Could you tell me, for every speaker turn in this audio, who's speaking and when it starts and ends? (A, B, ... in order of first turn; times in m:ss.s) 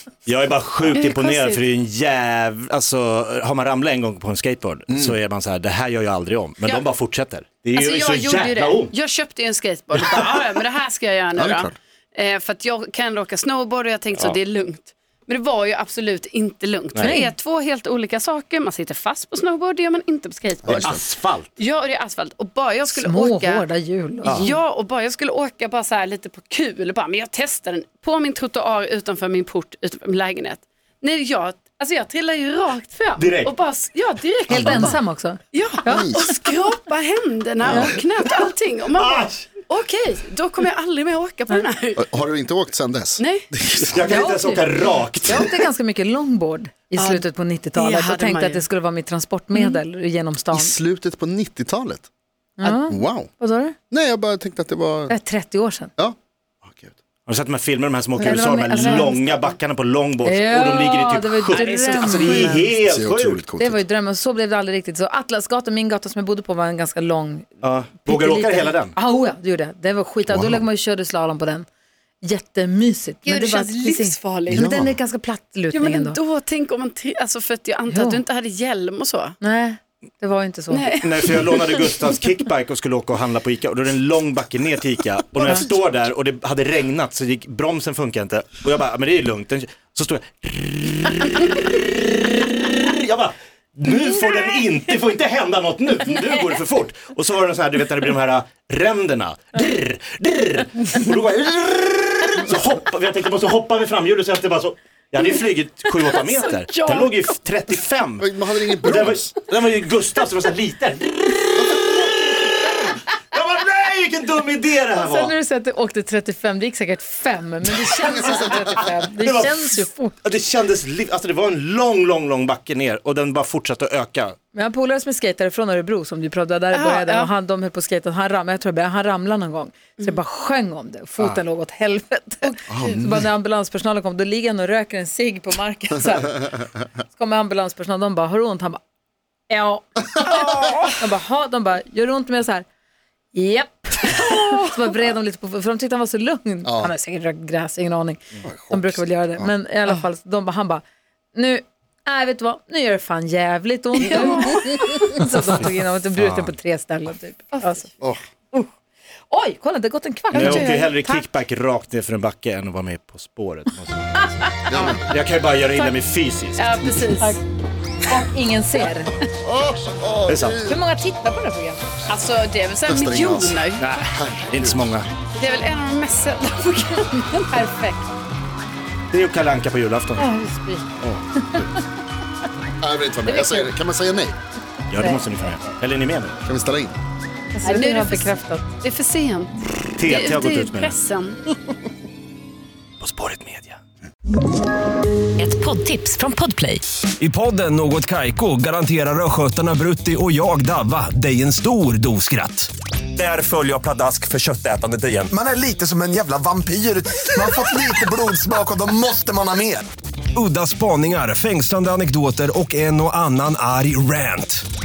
0:00.3-0:09.0 A
0:00.9-0:01.6 B
0:04.9-0:05.2 C
0:07.8-0:21.0 B
0:10.0-0:10.5 A
0:11.4-0:11.8 C
0:17.0-0:17.3 D
0:20.6-0:21.0 C
0:20.8-0:21.5 A
0:21.6-0:23.6 B
0:22.9-0:24.5 D
0:24.2-0:24.6 A
0:24.2-0:35.0 B
0:33.2-0:33.5 A
0:34.5-0:36.2 D
0:35.5-0:42.0 B
0:35.9-0:36.3 C
0:37.6-0:38.0 C
0:37.7-0:38.0 D
0:38.9-0:39.5 A
0:42.0-0:44.2 C
0:43.2-0:43.5 B
0:43.9-0:45.5 A
0:44.0-0:44.7 D
0:45.2-0:45.5 C
0:45.2-0:50.7 D
0:47.0-0:47.2 B
0:47.8-0:48.6 B
0:49.5-0:49.8 B
0:50.5-0:52.1 C
0:52.6-0:53.8 D
0:52.9-0:53.3 C
0:53.9-0:55.2 C
0:55.1-0:55.9 D
0:56.0-0:57.0 C
0:57.3-1:03.4 A
0:58.2-0:59.6 D
0:58.8-0:59.0 B
1:00.2-1:02.7 D
1:01.5-1:02.5 B
1:02.6-1:03.8 C
1:03.6-1:07.5 D
1:07.6-1:08.9 A
1:08.0-1:11.7 D
1:10.3-1:10.6 C
1:12.2-1:16.2 D
1:13.2-1:14.7 B
1:14.5-1:15.0 C
1:15.7-1:19.4 B
1:17.9-1:18.2 D
1:19.4-1:20.9 D
1:20.7-1:22.0 B
1:21.0-1:55.3 A
1:45.9-1:47.3 B
1:48.2-1:49.3 C
1:51.6-1:52.5 C
1:54.9-2:00.2 D
1:58.0-2:04.4 A
2:04.5-2:16.5 D
2:06.7-2:07.3 B
2:12.7-2:13.3 C
2:17.1-2:18.8 D
2:19.5-2:19.9 D
2:20.2-2:21.0 B
2:20.9-2:22.6 D
2:23.3-2:30.8 D
2:24.2-2:24.7 B
2:26.6-2:26.9 C
2:28.4-2:29.5 C
2:31.3-2:37.9 D
2:34.0-2:34.9 B
2:36.2-2:36.5 A
2:39.3-2:40.7 D
2:40.3-2:44.6 A
2:40.4-2:41.2 B
2:44.7-2:45.1 C
2:45.1-2:46.9 A
2:45.7-2:46.0 B
2:46.6-2:47.4 B
2:48.1-2:49.2 D
2:49.5-2:50.8 C
2:50.3-2:50.6 A
2:50.6-2:52.0 D
2:52.1-2:53.8 B
2:52.8-2:55.0 C
2:53.8-2:55.1 A
2:55.4-2:58.1 B
2:59.1-3:00.3 A
3:00.2-3:01.7 D
3:02.8-3:04.4 C
3:03.2-3:03.7 D
3:04.9-3:06.3 A
3:04.9-3:05.2 D
3:06.4-3:07.0 C
3:07.6-3:08.7 D
3:07.6-3:11.4 B
3:10.0-3:11.0 A
3:13.0-3:13.8 A
3:17.2-3:25.4 E
3:25.3-3:29.9 F
3:30.3-3:34.6 E